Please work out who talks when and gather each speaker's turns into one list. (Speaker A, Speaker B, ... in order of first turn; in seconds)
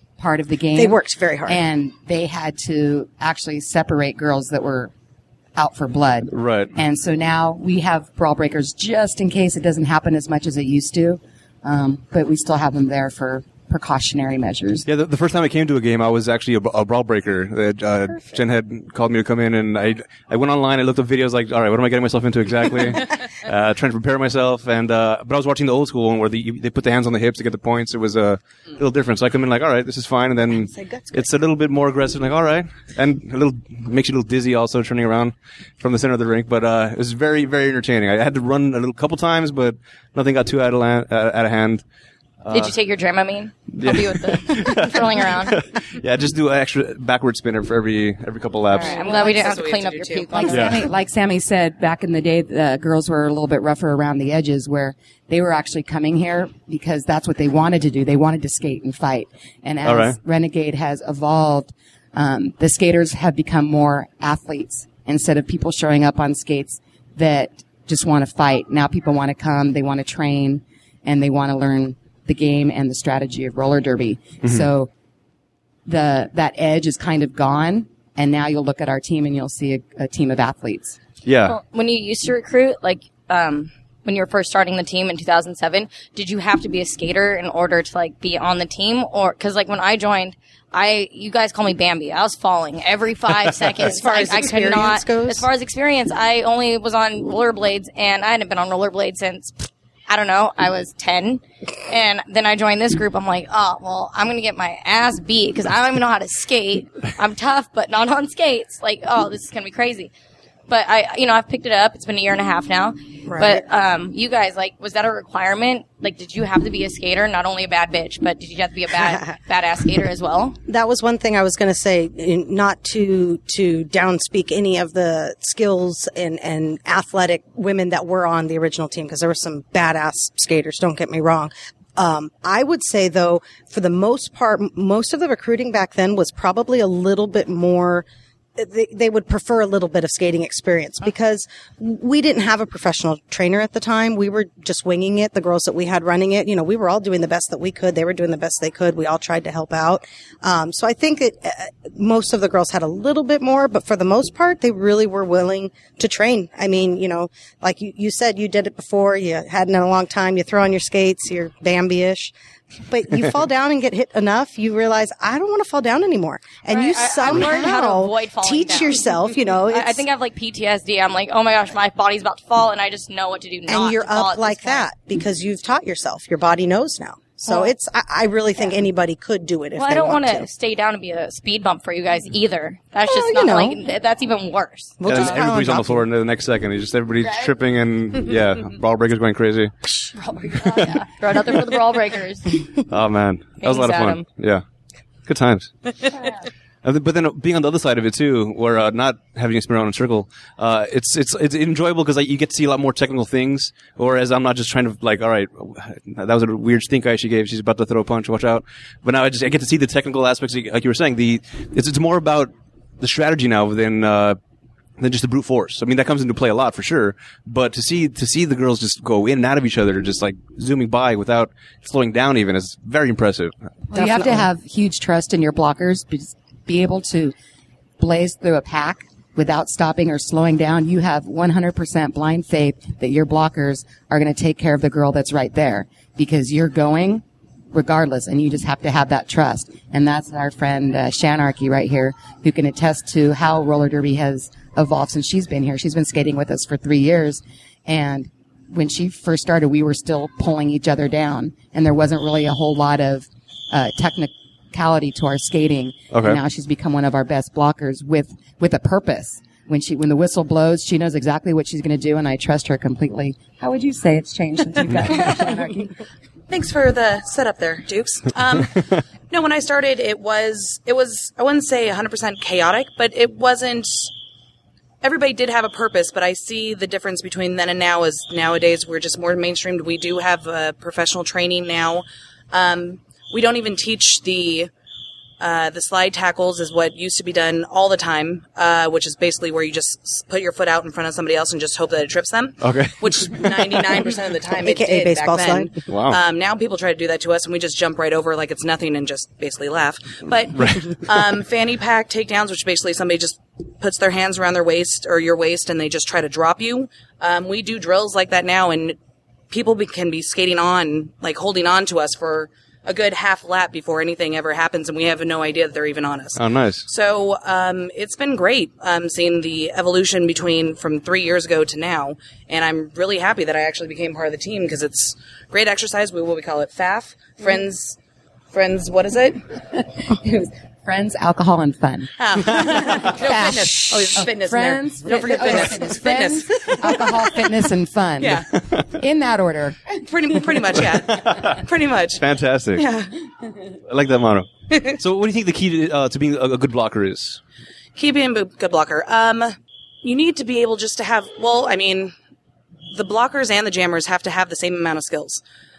Speaker A: 0.2-4.9, 5.6-14.9, 50.3-74.9, 75.9-81.0, 223.9-227.3, 228.0-265.9, 330.9-339.8
Speaker B: 0.8-1.6, 30.5-31.3, 93.8-95.5, 113.3-113.7, 120.7-162.3, 162.9-170.1, 173.7-180.5, 183.0-183.8, 185.0-186.1, 294.6-295.7
Speaker C: 6.3-6.8, 14.9-41.8, 42.4-42.8, 43.7-49.0, 50.5-50.8, 59.9-60.2, 81.3-81.6, 185.1-189.7, 192.9-194.6, 195.3-195.7, 196.8-214.4, 215.0-224.4, 256.1-256.4, 292.6-293.9, 295.9-296.2, 300.5-301.1, 316.4-316.9, 341.2-341.6, 342.1-342.9, 343.9-347.4
Speaker D: 42.5-45.6, 48.8-50.9, 81.5-110.1, 110.7-120.6, 166.7-174.9, 177.4-177.7, 179.8-185.3, 190.4-192.7, 193.6-194.2
Speaker E: 48.8-50.6, 266.5-274.1, 275.0-284.7, 285.4-309.0, 309.5-328.0, 328.5-329.4, 332.2-337.1, 338.2-338.4, 340.0-342.2, 342.8-343.1, 347.9-352.1, 352.9-355.4